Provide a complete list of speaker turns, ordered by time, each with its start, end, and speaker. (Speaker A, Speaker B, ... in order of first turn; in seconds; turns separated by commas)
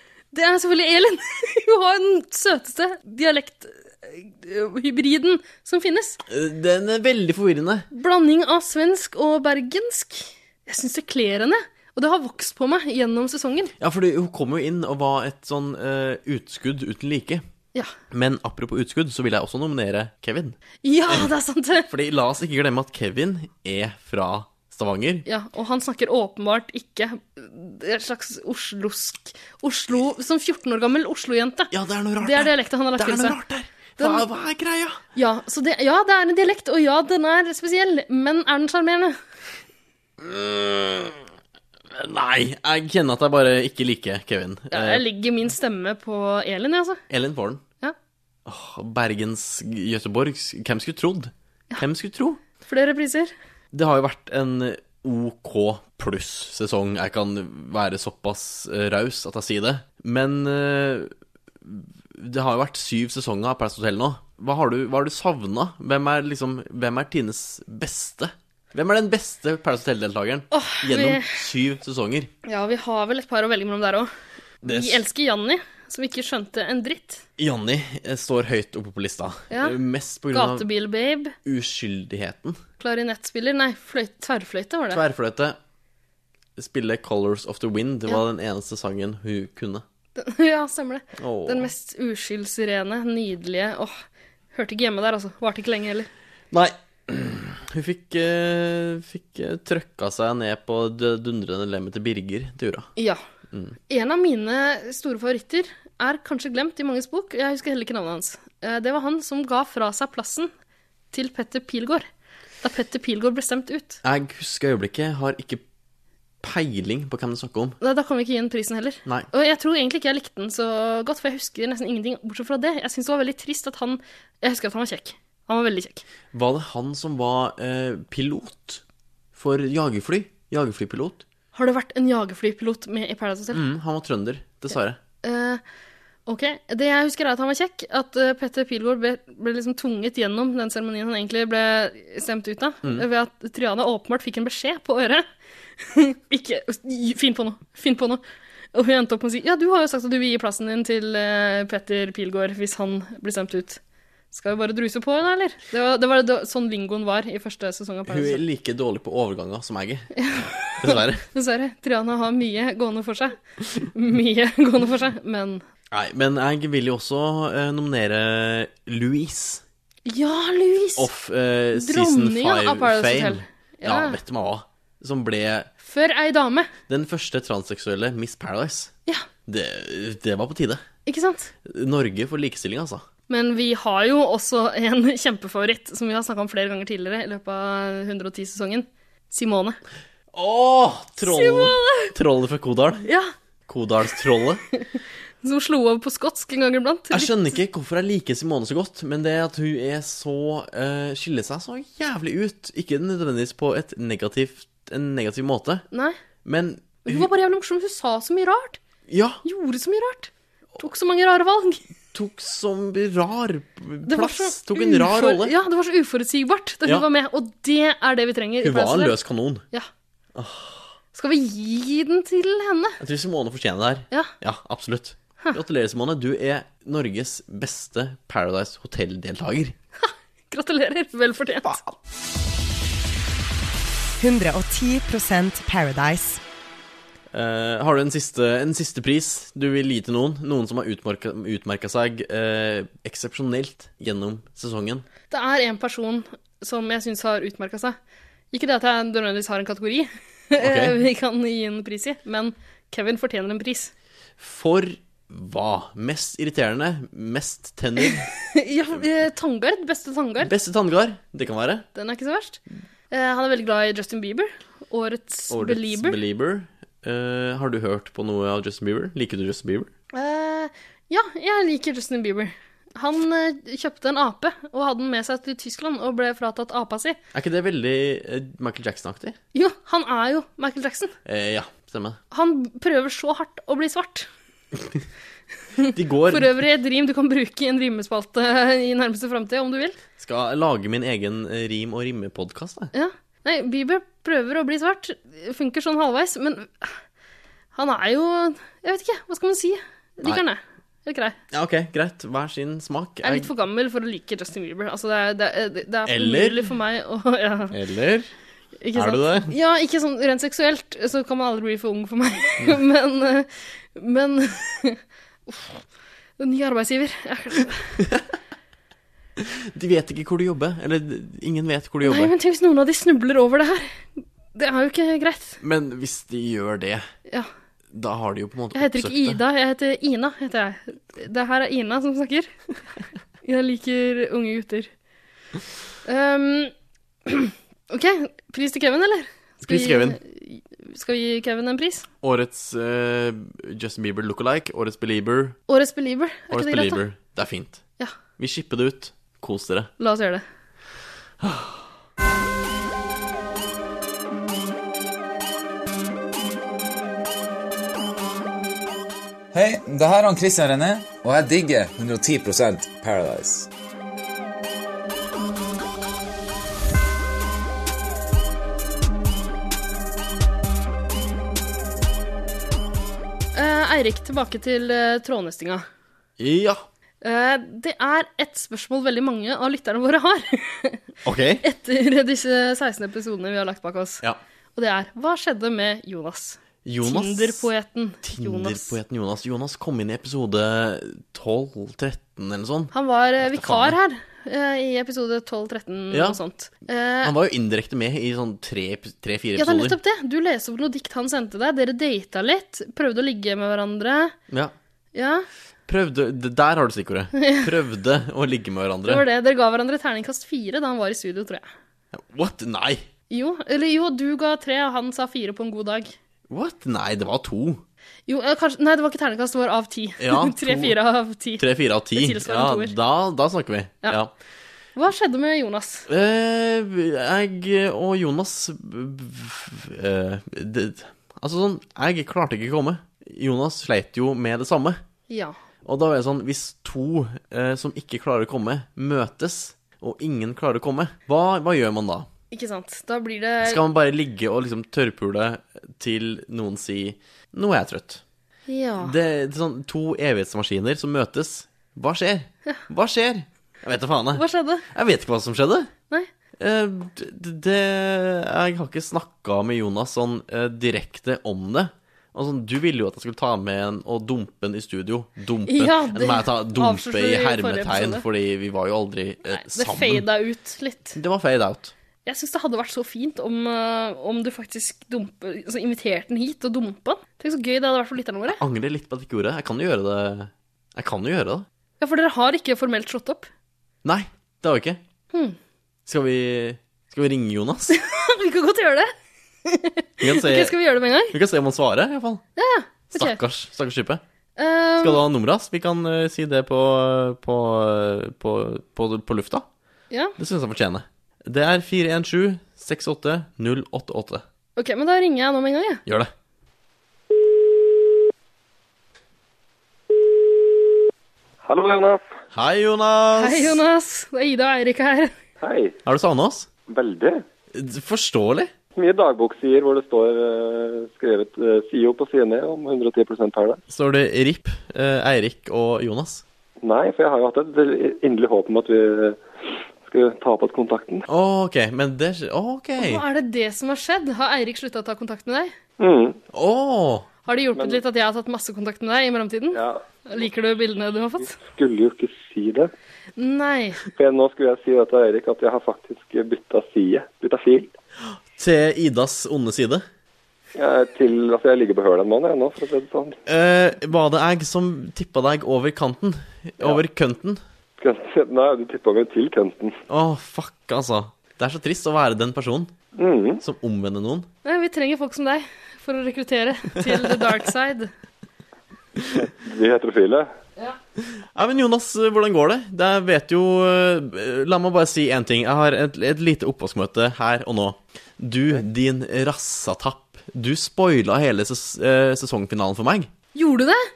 Speaker A: 0.3-6.2, Speaker B: 6.3-7.9, Speaker A: 7.9-13.7, Speaker B: 13.8-17.4, Speaker B: 18.1-20.6, Speaker A: 20.8-21.9, Speaker B: 21.9-25.2, Speaker A: 25.2-33.4, Speaker B: 31.7-35.0, Speaker A: 34.0-34.2, Speaker A: 35.1-39.2, Speaker B: 40.2-41.2, Speaker B: 41.9-45.0, Speaker A: 44.7-47.0, Speaker B: 47.1-47.6, Speaker B: 48.5-52.4, Speaker A: 52.6-53.3, Speaker B: 53.7-61.1, Speaker B: 61.6-72.3, Speaker A: 70.5-71.3, Speaker A: 72.4-74.1, Speaker B: 74.6-75.0, Speaker A: 74.6-77.2, Speaker B: 77.4-80.7, Speaker A: 79.5-79.8, Speaker A: 80.3-81.3, Speaker B: 81.4-82.6, Speaker A: 82.8-85.0, Speaker B: 84.9-85.6, Speaker B: 86.6-89.8, Speaker A: 90.2-94.0, Speaker B: 91.2-91.7, Speaker A: 94.5-96.1, Speaker B: 96.5-102.9, Speaker A: 103.9-110.5, Speaker A: 111.1-112.0, Speaker A: 112.6-114.0, Speaker B: 114.0-115.6, Speaker B: 116.4-117.8, Speaker A: 117.8-126.0, Speaker B: 126.3-128.8, Speaker B: 129.3-131.2, Speaker A: 131.5-133.6, Speaker B: 133.5-135.0, Speaker A: 135.2-135.6, Speaker A: 136.3-145.2, Speaker A: 145.8-148.2, Speaker A: 148.7-153.8, Speaker A: 154.3-158.4, Speaker B: 158.1-160.1, Speaker A: 160.1-165.6, Speaker B: 160.8-161.2, Speaker B: 165.9-169.6, Speaker A: 170.1-171.1, Speaker B: 171.0-175.7, Speaker A: 171.7-174.2, Speaker A: 175.8-176.7, Speaker B: 176.9-178.9, Speaker B: 179.5-180.8, Speaker A: 181.1-181.5, Speaker B: 181.6-183.0, Speaker A: 183.3-189.8, Speaker B: 190.3-193.1, Speaker A: 191.2-192.1, Speaker A: 193.0-193.3, Speaker B: 193.7-194.6, Speaker A: 195.4-197.6, Speaker B: 197.1-205.8, Speaker B: 206.4-207.3, Speaker A: 207.0-208.8, Speaker B: 209.1-209.4, Speaker A: 209.4-211.8, Speaker B: 212.1-215.5, Speaker A: 214.1-219.2, Speaker B: 218.6-219.6, Speaker B: 220.3-220.9, Speaker A: 221.1-223.0, Speaker B: 223.0-229.7, Speaker A: 230.0-231.8, Speaker B: 231.6-231.9, Speaker C: 234.2-236.4, Speaker B: 237.3-245.1, Speaker A: 245.3-247.9, Speaker A: 248.5-253.9, Speaker B: 250.6-251.0, Speaker B: 254.4-258.3, Speaker A: 258.0-260.5, Speaker B: 260.4-261.9, Speaker A: 261.9-266.2, Speaker B: 265.5-269.9, Speaker A: 270.1-277.2, Speaker B: 277.3-279.4, Speaker A: 279.5-281.1, Speaker B: 281.2-282.2, Speaker A: 282.3-284.3, Speaker A: 285.8-290.0, Speaker B: 285.9-286.6, Speaker B: 290.2-292.9, Speaker A: 292.9-296.9, Speaker A: 297.7-301.4, Speaker B: 301.5-303.5, Speaker A: 303.2-307.8, Speaker B: 306.1-306.7, Speaker B: 307.7-308.3, Speaker A: 308.8-315.8, Speaker B: 308.9-309.5, Speaker A: 316.4-318.0, Speaker B: 318.0-318.2, Speaker B: 319.4-322.3, Speaker A: 322.0-325.6, Speaker B: 325.6-327.1, Speaker B: 327.9-329.4, Speaker A: 328.7-332.5, Speaker A: 333.4-334.9, Speaker A: 336.0-336.7, Speaker A: 337.2-342.1, Speaker B: 339.6-340.2, Speaker B: 342.2-345.6, Speaker A: 345.7-347.0, Speaker B: 346.5-347.8, Speaker B: 348.4-349.9, Speaker A: 350.0-350.4, Speaker B: 351.4-351.8, Speaker D: 359.5-363.7, Speaker A: 373.5-375.8, Speaker B: 376.4-376.8, Speaker A: 377.2-381.0, Speaker B: 381.2-381.6, Speaker A: 381.6-384.2, Speaker A: 384.8-388.9, Speaker B: 386.8-387.7, Speaker B: 388.2-394.0, Speaker A: 392.9-397.3, Speaker B: 396.1-396.4, Speaker B: 397.2-400.0, Speaker A: 399.6-404.3, Speaker A: 405.1-405.4, Speaker B: 405.9-409.2, Speaker A: 407.4-407.7, Speaker A: 409.1-411.6, Speaker B: 412.1-413.1, Speaker A: 413.3-416.1, Speaker B: 416.5-417.8, Speaker A: 418.3-422.9, Speaker B: 420.2-420.9, Speaker B: 421.6-424.3, Speaker A: 424.9-426.1, Speaker B: 426.1-435.0, Speaker A: 435.3-435.6, Speaker B: 435.8-442.3, Speaker A: 442.5-443.8, Speaker B: 443.6-448.2, Speaker A: 448.7-449.1, Speaker B: 449.0-455.9, Speaker A: 454.3-454.9, Speaker B: 456.6-470.2, Speaker A: 465.7-468.2, Speaker A: 469.5-471.2, Speaker B: 471.1-471.9, Speaker A: 472.2-478.6, Speaker B: 478.5-481.6, Speaker A: 482.0-483.5, Speaker B: 484.0-485.0, Speaker B: 486.1-488.0, Speaker A: 487.9-489.1, Speaker A: 489.6-491.4, Speaker B: 490.2-490.8, Speaker B: 491.3-492.4, Speaker A: 492.6-493.4, Speaker B: 493.1-494.2, Speaker A: 494.6-495.2, Speaker B: 495.0-499.6, Speaker A: 500.1-500.4, Speaker B: 500.4-504.4, Speaker A: 504.8-506.0, Speaker B: 506.1-506.3, Speaker E: 511.6-512.2, Speaker B: 512.5-513.8, Speaker A: 513.4-515.3, Speaker E: 515.6-516.0, Speaker B: 516.0-516.7, Speaker E: 516.9-517.4, Speaker B: 517.7-518.7, Speaker E: 519.0-523.8, Speaker B: 523.9-526.4, Speaker E: 526.8-529.4, Speaker E: 530.0-531.2, Speaker B: 531.3-533.2, Speaker A: 533.0-535.7, Speaker E: 536.0-536.4, Speaker B: 536.5-537.3, Speaker A: 537.5-541.6, Speaker E: 539.7-540.5, Speaker E: 541.5-542.9, Speaker A: 543.4-544.0, Speaker E: 544.1-547.9, Speaker B: 548.5-550.0, Speaker E: 550.8-553.4, Speaker B: 553.5-557.6, Speaker E: 558.0-560.0, Speaker B: 560.1-562.9, Speaker E: 563.1-563.6, Speaker B: 563.6-564.5, Speaker A: 564.6-568.1, Speaker B: 567.0-567.5, Speaker E: 569.4-570.5, Speaker B: 571.3-583.3, Speaker A: 583.5-584.0